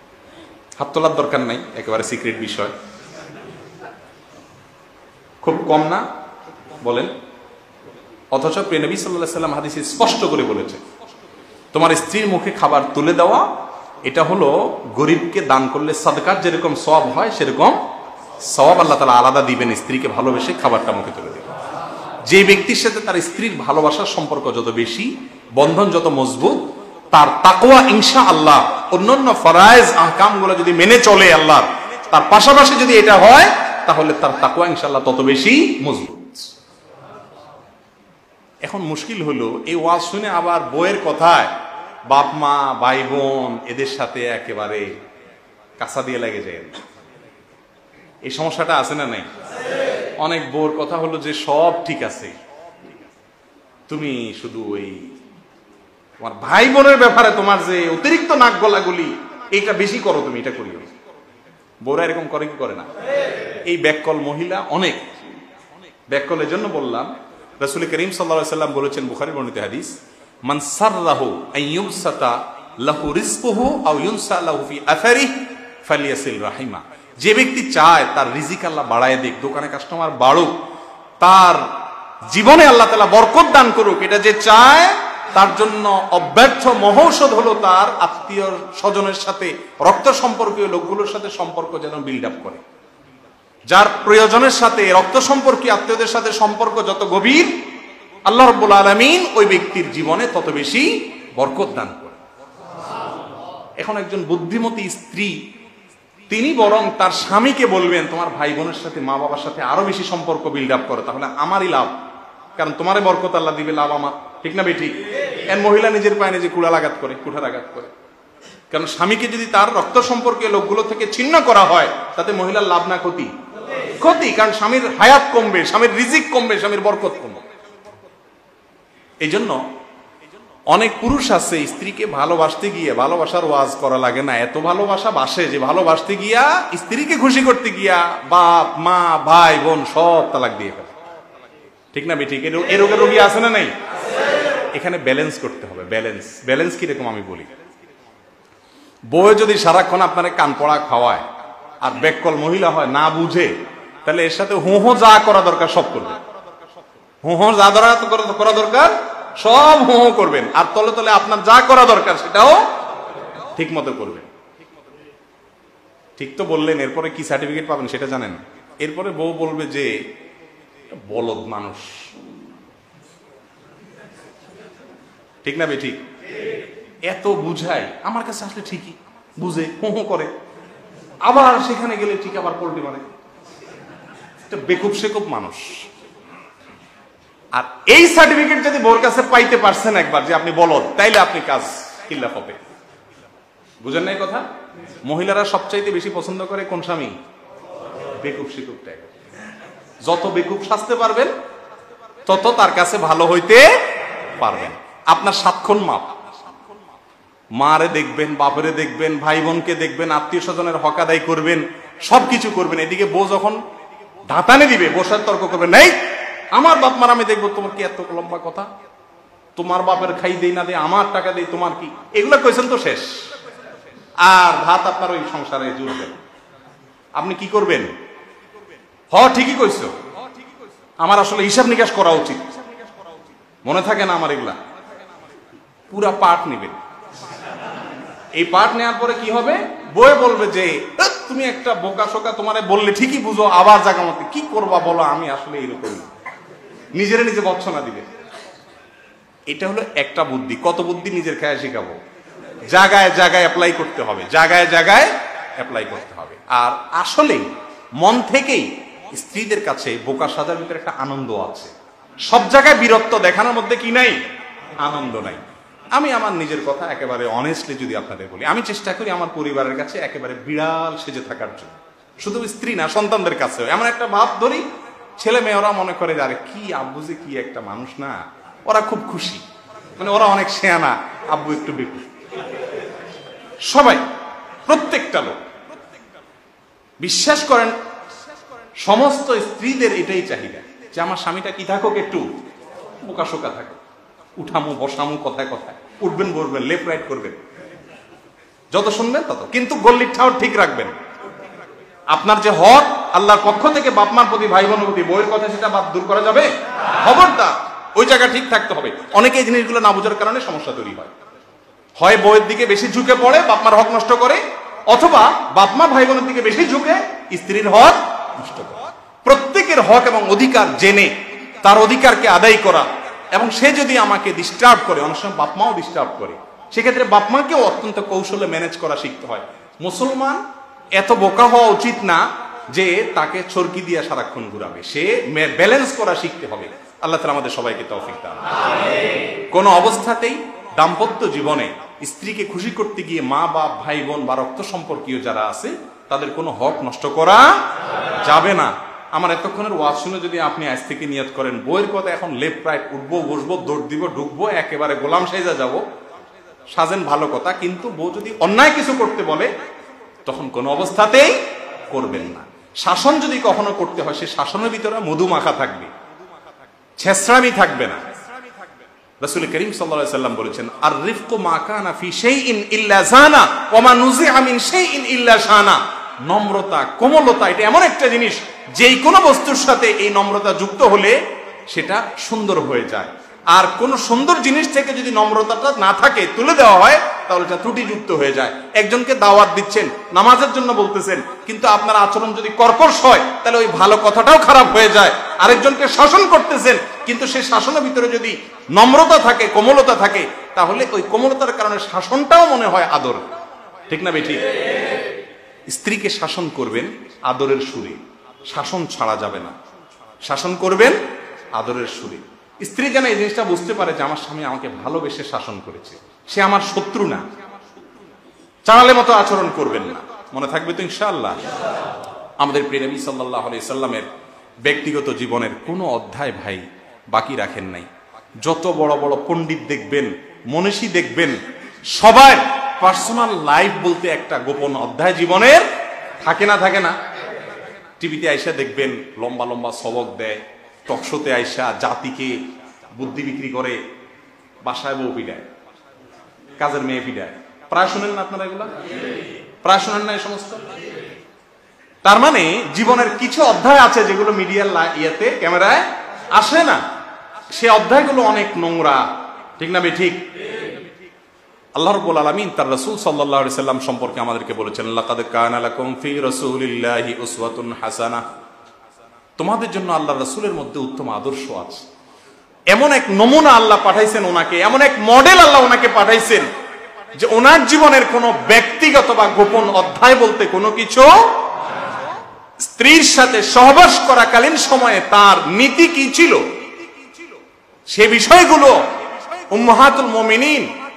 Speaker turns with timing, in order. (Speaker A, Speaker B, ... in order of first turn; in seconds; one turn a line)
Speaker A: 0.8-2.7
Speaker A: 5.4-6.0
Speaker A: 6.8-7.1
Speaker A: 8.3-10.8
Speaker A: 11.7-13.5
Speaker A: 14.0-17.8
Speaker A: 18.5-21.5
Speaker A: 22.2-36.5
Speaker A: 38.6-41.5
Speaker A: 42.1-44.9
Speaker A: 45.8-46.8
Speaker A: 48.2-49.3
Speaker A: 50.2-52.3
Speaker A: 53.9-55.1
Speaker A: 56.2-60.9
Speaker A: 61.8-62.9
Speaker A: 63.6-65.1
Speaker A: 66.1-80.6
Speaker A: 81.2-92.6
Speaker A: 93.7-97.5
Speaker A: 98.2-102.2
Speaker A: 103.8-105.4
Speaker A: 106.3-112.0
Speaker A: 112.6-117.9
Speaker A: 118.7-123.3
Speaker A: 124.0-127.4
Speaker A: 129.2-129.6
Speaker A: 130.7-140.9
Speaker A: 141.9-143.7
Speaker A: 144.7-147.5
Speaker A: 149.1-151.2
Speaker A: 151.8-156.2
Speaker A: 157.2-162.6
Speaker A: 163.6-164.3
Speaker A: 166.2-170.1
Speaker A: 171.1-172.1
Speaker A: 175.4-176.0
Speaker A: 177.1-180.3
Speaker A: 181.2-183.1
Speaker A: 184.5-185.9
Speaker A: 187.5-192.6
Speaker A: 193.8-194.4
Speaker A: 195.0-197.1
Speaker A: 198.2-199.1
Speaker A: 200.0-201.3
Speaker A: 202.2-203.7
Speaker A: 204.4-206.2
Speaker A: 207.6-213.6
Speaker A: 214.3-218.7
Speaker A: 219.6-223.3
Speaker A: 224.2-226.2
Speaker A: 227.2-227.9
Speaker A: 229.1-229.9
Speaker A: 231.0-232.4
Speaker A: 233.6-234.6
Speaker A: 235.9-236.8
Speaker A: 238.3-246.1
Speaker A: 246.9-248.1
Speaker A: 249.5-252.0
Speaker A: 252.7-261.7
Speaker A: 262.2-264.2
Speaker A: 264.8-265.4
Speaker A: 265.9-274.6
Speaker A: 275.2-279.4
Speaker A: 280.0-282.1
Speaker A: 283.6-284.1
Speaker A: 284.6-285.4
Speaker A: 287.0-287.8
Speaker A: 288.8-292.3
Speaker A: 293.0-293.8
Speaker A: 294.4-297.4
Speaker A: 298.7-300.9
Speaker A: 302.1-311.1
Speaker A: 312.0-330.4
Speaker A: 330.9-338.5
Speaker A: 339.5-347.5
Speaker A: 348.2-355.8
Speaker A: 356.7-359.5
Speaker A: 360.2-361.4
Speaker A: 361.9-365.9
Speaker A: 367.0-368.0
Speaker A: 369.2-381.2
Speaker A: 381.7-403.2
Speaker A: 403.9-404.6
Speaker A: 405.7-409.5
Speaker A: 410.2-411.0
Speaker A: 411.5-417.2
Speaker A: 418.7-421.4
Speaker A: 422.4-424.1
Speaker A: 424.6-427.9
Speaker A: 428.4-431.4
Speaker A: 431.9-435.6
Speaker A: 436.2-436.9
Speaker A: 438.0-442.4
Speaker A: 442.9-443.8
Speaker A: 444.6-445.5
Speaker A: 446.6-448.7
Speaker A: 449.6-450.6
Speaker A: 452.0-456.8
Speaker A: 457.5-460.2
Speaker A: 461.8-468.2
Speaker A: 469.4-471.8
Speaker A: 472.7-476.5
Speaker A: 477.1-481.4
Speaker A: 482.6-486.5
Speaker A: 487.9-488.9
Speaker A: 489.5-490.8